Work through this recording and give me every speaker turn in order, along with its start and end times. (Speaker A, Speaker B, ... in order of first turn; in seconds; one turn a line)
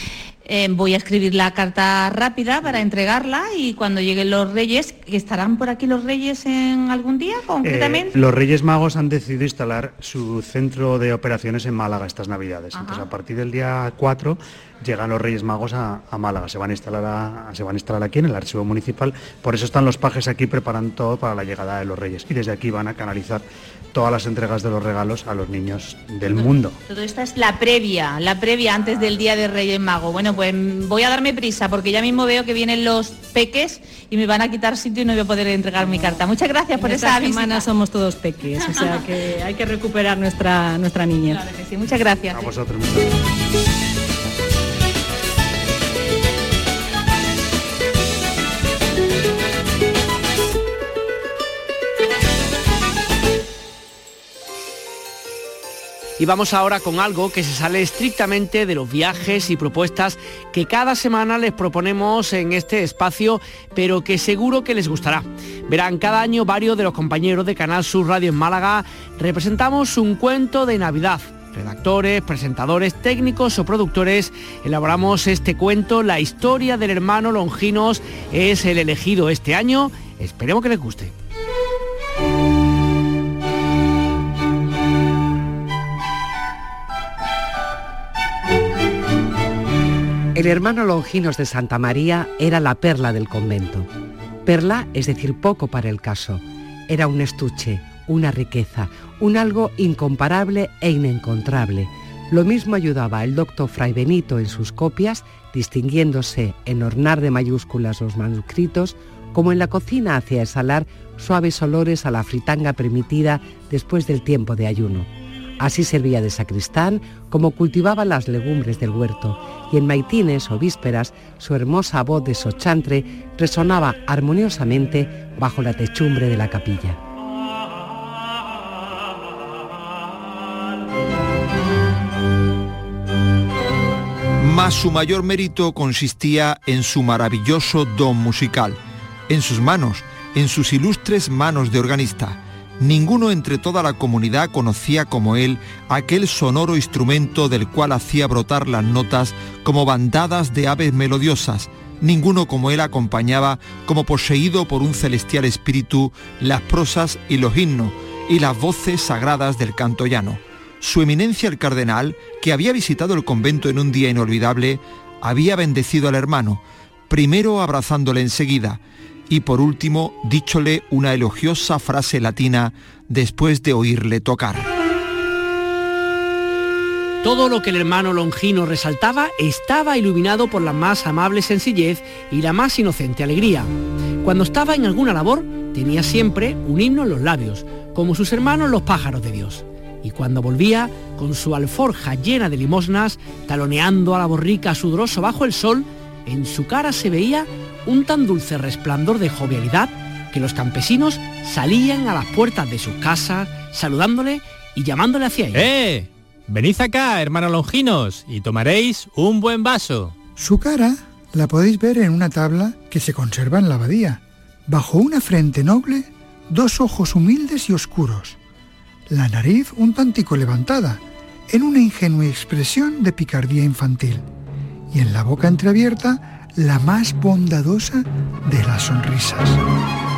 Speaker A: 0.5-8.1
Speaker B: 7.6-26.8
Speaker A: 12.7-13.1
Speaker A: 26.3-37.7
Speaker C: 36.8-41.4
Speaker A: 38.6-39.0
Speaker A: 41.3-42.5
Speaker B: 42.3-43.1
Speaker D: 56.2-81.1
Speaker E: 90.3-93.9
Speaker E: 94.5-115.1
Speaker E: 115.6-127.0
Speaker F: 134.4-174.7
Speaker D: 177.2-183.7
Speaker D: 184.2-205.7
Speaker G: 205.5-210.2
Speaker H: 210.4-218.4
Speaker H: 219.1-224.2
Speaker H: 224.9-229.6